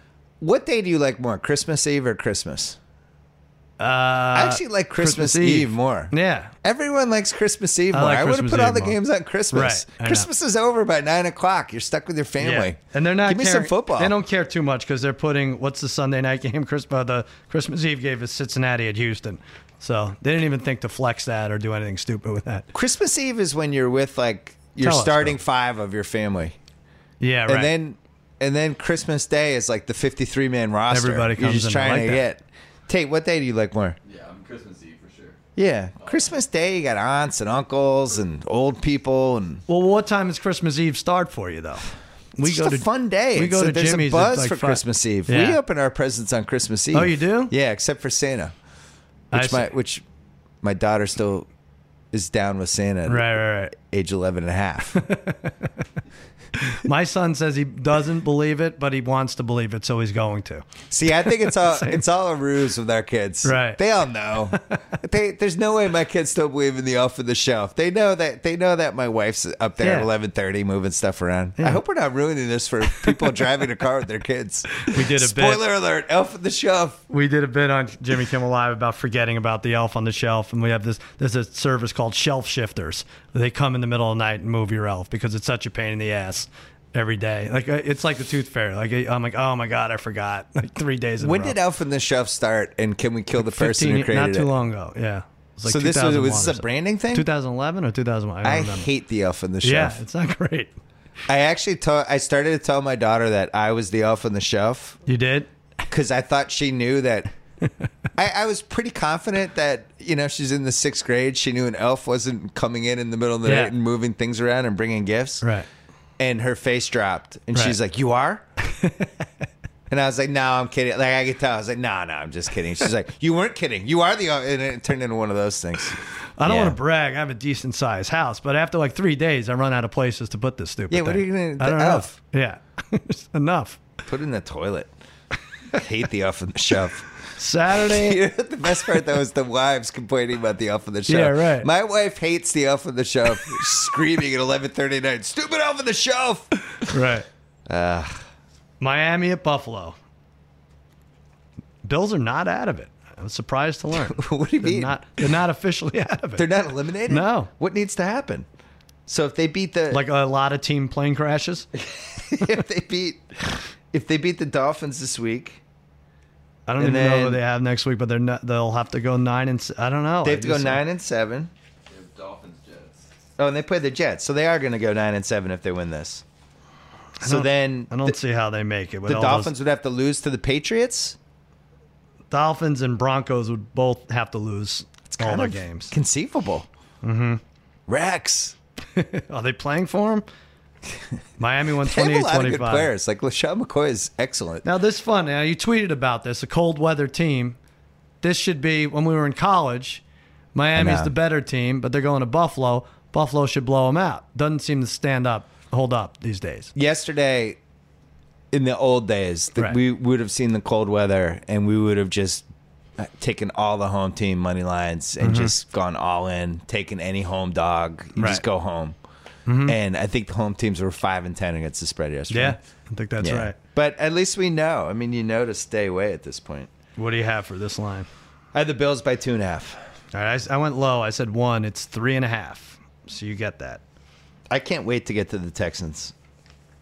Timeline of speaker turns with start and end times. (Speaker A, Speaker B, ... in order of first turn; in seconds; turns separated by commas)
Speaker A: 0.4-2.8, Speaker B: 3.8-6.5, Speaker A: 4.3-14.1, Speaker B: 7.9-9.0, Speaker B: 9.5-10.3, Speaker B: 12.4-22.7, Speaker A: 22.7-26.6, Speaker B: 24.8-25.4, Speaker B: 27.2-27.7, Speaker A: 27.5-34.0, Speaker B: 30.9-32.2, Speaker C: 34.0-35.4, Speaker A: 35.5-39.6, Speaker C: 36.0-36.3, Speaker B: 39.7-45.6, Speaker A: 42.4-48.5, Speaker B: 46.9-47.5, Speaker A: 49.3-50.0, Speaker B: 49.3-49.7, Speaker A: 50.6-51.5, Speaker A: 52.1-55.0, Speaker B: 53.1-53.7, Speaker B: 54.9-55.7, Speaker B: 56.6-60.6, Speaker A: 60.9-77.0, Speaker B: 61.2-62.0, Speaker B: 63.4-63.8, Speaker B: 64.5-64.8, Speaker B: 69.8-70.1, Speaker B: 72.9-73.5, Speaker B: 74.8-75.6, Speaker B: 77.1-91.6, Speaker A: 91.2-94.5, Speaker B: 93.3-98.9, Speaker A: 95.7-97.3, Speaker A: 98.4-100.0, Speaker B: 99.6-100.7, Speaker A: 101.3-105.0, Speaker B: 105.0-105.5, Speaker A: 105.9-107.3, Speaker A: 108.2-115.5, Speaker B: 113.4-113.7, Speaker B: 115.4-115.7, Speaker A: 116.2-118.4, Speaker B: 118.6-119.1, Speaker A: 119.9-126.8, Speaker B: 126.4-133.8, Speaker A: 130.9-132.1, Speaker A: 134.0-134.9, Speaker A: 135.7-137.1, Speaker B: 137.3-138.2, Speaker A: 137.7-146.5, Speaker B: 141.1-141.7, Speaker B: 146.8-147.3, Speaker A: 147.7-148.2, Speaker B: 148.8-150.0, Speaker B: 151.8-156.5, Speaker A: 153.9-155.0, Speaker A: 156.4-158.4, Speaker B: 157.1-157.5, Speaker A: 159.1-160.0, Speaker B: 159.9-161.7, Speaker A: 162.1-165.6, Speaker B: 166.7-170.8, Speaker A: 166.8-167.4, Speaker A: 170.2-171.5, Speaker C: 171.9-173.1, Speaker A: 173.4-176.2, Speaker B: 177.2-179.5, Speaker A: 177.2-178.2, Speaker A: 179.1-181.2, Speaker B: 182.3-185.9, Speaker A: 185.1-186.7, Speaker B: 187.0-187.4, Speaker A: 187.9-188.5, Speaker B: 188.9-190.2, Speaker B: 191.4-192.9, Speaker A: 191.8-194.7, Speaker B: 194.6-197.6, Speaker B: 198.2-200.0, Speaker B: 200.5-206.7, Speaker A: 200.8-201.1, Speaker A: 206.7-207.6, Speaker A: 208.5-212.4, Speaker A: 213.0-218.9, Speaker B: 215.2-215.5, Speaker B: 218.2-218.4, Speaker B: 219.4-219.8, Speaker A: 219.6-222.6, Speaker B: 222.3-223.5, Speaker A: 223.2-226.7, Speaker B: 226.9-228.1, Speaker A: 228.5-229.8, Speaker B: 230.1-233.8, Speaker A: 234.5-236.1